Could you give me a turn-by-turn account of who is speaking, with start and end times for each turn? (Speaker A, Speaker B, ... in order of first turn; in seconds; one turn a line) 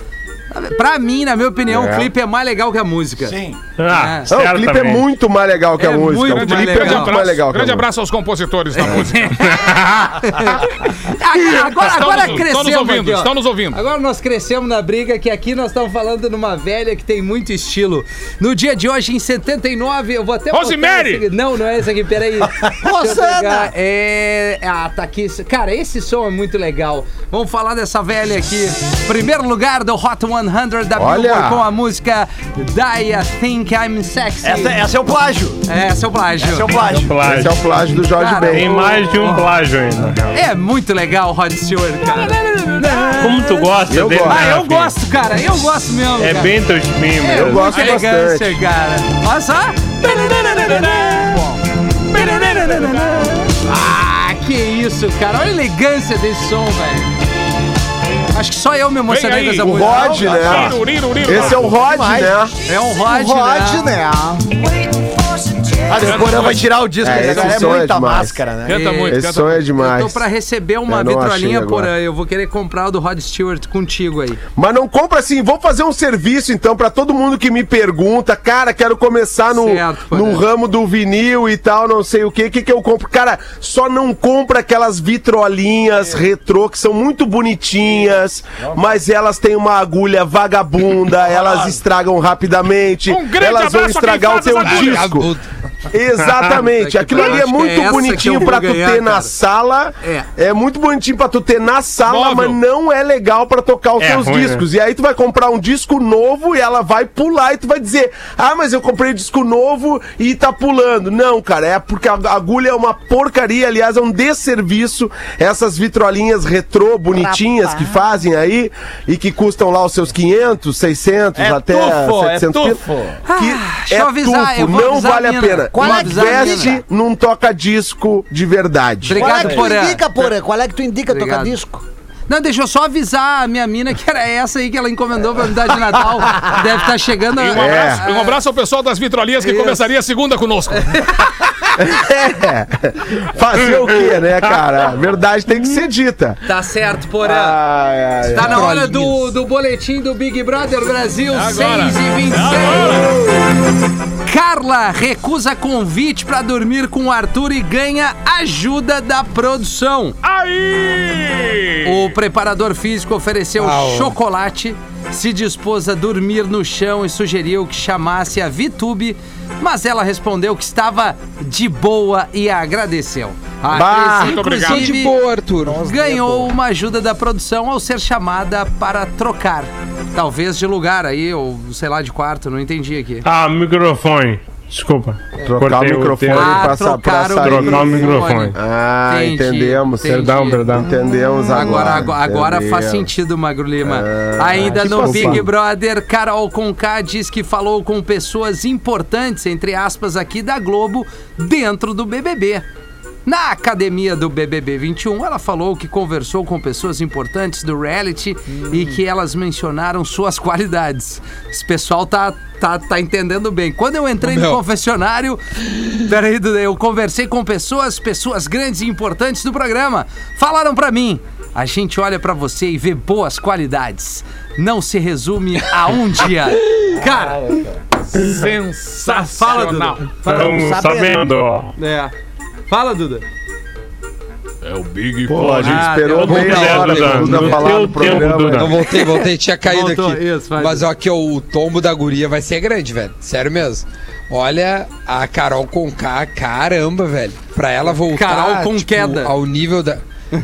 Speaker A: 0.5-3.4
Speaker B: 1.7-2.1
Speaker C: 3.2-3.6
Speaker D: 3.8-5.0
Speaker A: 3.9-4.3
Speaker B: 4.3-7.8
Speaker A: 5.8-7.1
Speaker E: 6.2-9.5
Speaker A: 8.7-34.8
Speaker D: 9.5-10.1
Speaker E: 11.6-13.8
Speaker E: 20.5-21.2
Speaker F: 22.8-23.7
Speaker B: 30.9-31.6
Speaker C: 34.4-35.6
Speaker A: 35.6-36.7
Speaker C: 36.4-37.2
Speaker D: 36.8-37.5
Speaker B: 37.2-39.1
Speaker A: 38.2-39.5
Speaker D: 38.4-40.4
Speaker A: 40.3-46.5
Speaker D: 43.1-44.9
Speaker B: 43.9-44.5
Speaker D: 46.1-47.7
Speaker A: 47.2-51.4
Speaker B: 47.2-48.6
Speaker E: 50.5-51.2
Speaker A: 52.1-57.1
Speaker E: 52.1-52.9
Speaker A: 58.3-60.4
Speaker E: 59.1-61.7
Speaker B: 59.6-62.5
Speaker C: 60.1-60.6
Speaker F: 61.8-62.4
Speaker A: 62.6-63.9
Speaker F: 63.0-65.8
Speaker C: 65.9-68.8
Speaker E: 66.0-66.7
Speaker B: 67.0-68.4
Speaker E: 67.2-67.8
Speaker E: 68.6-69.6
Speaker A: 68.7-69.2
Speaker B: 69.1-70.2
Speaker A: 69.8-74.4
Speaker B: 70.9-71.9
Speaker B: 74.5-95.3
Speaker A: 79.5-80.4
Speaker C: 88.0-89.0
Speaker C: 91.3-91.8
Speaker E: 93.1-95.2
Speaker G: 94.6-95.4
Speaker B: 95.9-129.5
Speaker A: 96.4-99.3
Speaker E: 102.0-102.6
Speaker D: 104.0-104.6
Speaker F: 117.1-118.0
Speaker C: 121.3-123.2
Speaker A: 123.2-126.8
Speaker F: 125.7-126.8
Speaker A: 129.0-130.0
Speaker F: 129.1-131.8
Speaker C: 129.2-129.7
Speaker A: 131.1-131.6
Speaker A: 132.3-138.4
Speaker E: 137.3-141.2
Speaker B: 137.6-138.0
Speaker A: 140.7-141.7
Speaker B: 141.8-146.4
Speaker A: 146.4-147.6
Speaker B: 147.2-148.7
Speaker A: 148.3-153.2
Speaker G: 148.4-149.2
Speaker E: 151.3-153.2
Speaker A: 154.2-160.2
Speaker E: 160.2-162.1
Speaker A: 161.8-175.1
Speaker G: 163.6-164.1
Speaker B: 173.7-174.4
Speaker E: 174.2-174.9
Speaker G: 174.6-175.8
Speaker F: 175.6-176.5
Speaker A: 175.8-183.2
Speaker D: 183.2-186.8
Speaker B: 185.4-193.1
Speaker A: 186.3-190.8
Speaker D: 187.4-188.6
Speaker D: 190.1-190.9
Speaker A: 191.5-202.6
Speaker F: 191.5-191.8
Speaker B: 193.8-195.4
Speaker D: 194.6-195.5
Speaker A: 203.2-227.6
Speaker G: 214.2-214.6
Speaker C: 227.0-227.8
Speaker E: 228.1-230.1
Speaker A: 229.0-230.8
Speaker D: 230.2-231.7
Speaker F: 230.2-231.3
Speaker A: 231.8-232.1
Speaker A: 232.7-233.2
Speaker E: 234.6-235.7
Speaker B: 235.3-238.7
Speaker D: 235.4-238.7
Speaker A: 235.7-237.9
Speaker G: 236.2-250.0
Speaker A: 238.9-240.9
Speaker A: 248.1-249.3